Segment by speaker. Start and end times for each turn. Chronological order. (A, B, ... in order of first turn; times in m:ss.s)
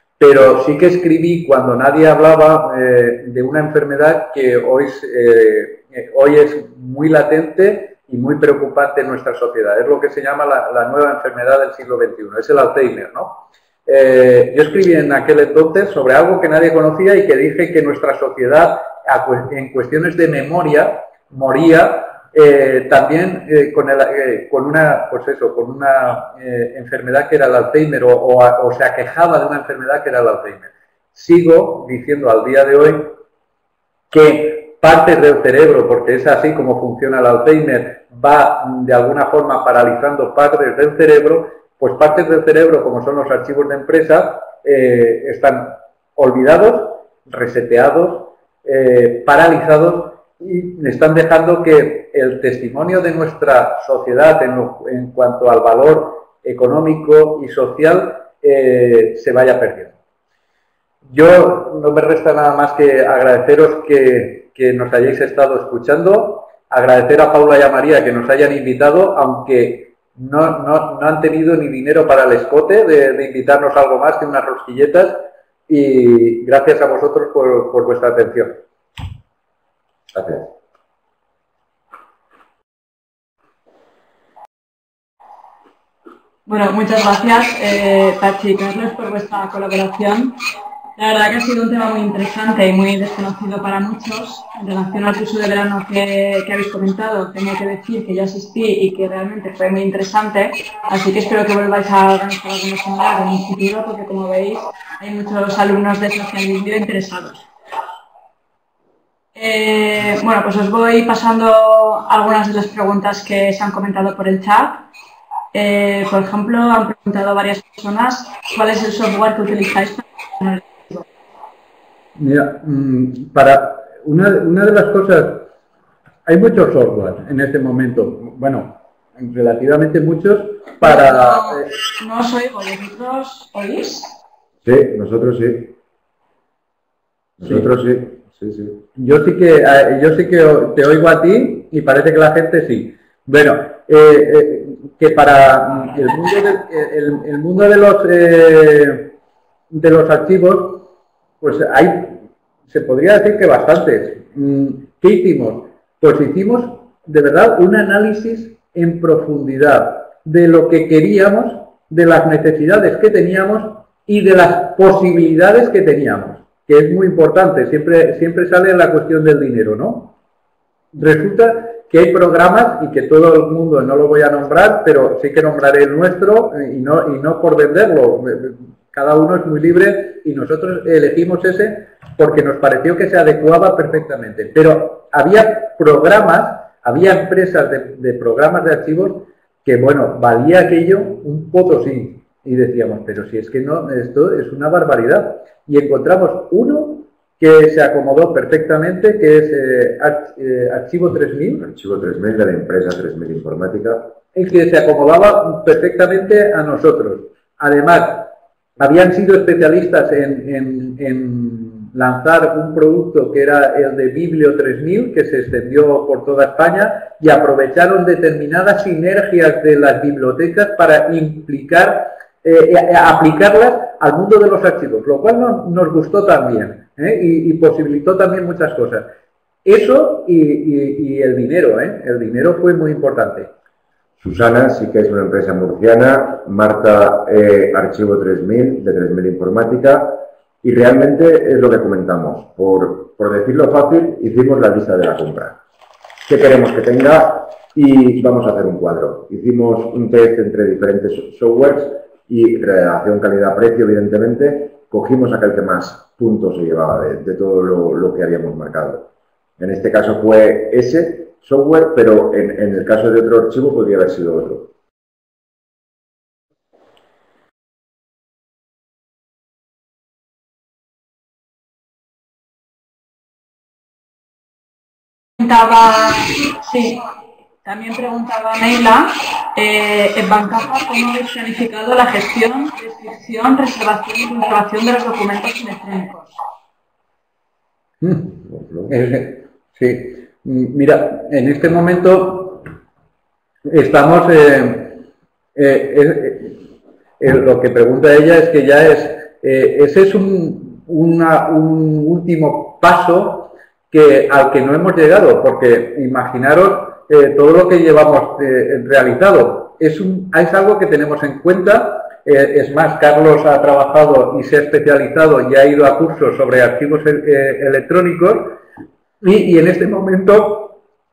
0:00.2-0:33.1 A
0:34.1-1:00.0 A
1:01.1-1:18.6 A
1:20.1-1:20.5 B
1:26.4-1:30.4 C
1:31.0-1:47.5 C
1:49.3-1:54.8 C
1:55.5-2:01.0 C
2:02.2-2:05.5 A
2:06.2-2:11.7 A
2:10.8-2:14.1 C
2:14.6-2:15.7 B
2:17.4-2:18.8 B
2:19.0-2:29.1 A
2:29.7-2:30.9 A
2:31.4-2:50.1 A
2:50.9-3:21.6 A
3:21.6-3:24.1 B
3:24.3-3:49.0 A
3:49.6-3:53.5 A
3:54.2-4:05.6 B
4:06.2-4:24.7 B
4:35.4-4:37.0 C
4:37.6-4:46.4 C
4:48.0-4:52.7 A
4:48.4-4:48.9 B
4:53.6-4:55.0 A
4:55.6-4:56.6 A
4:57.2-5:18.6 A
5:19.2-5:20.8 A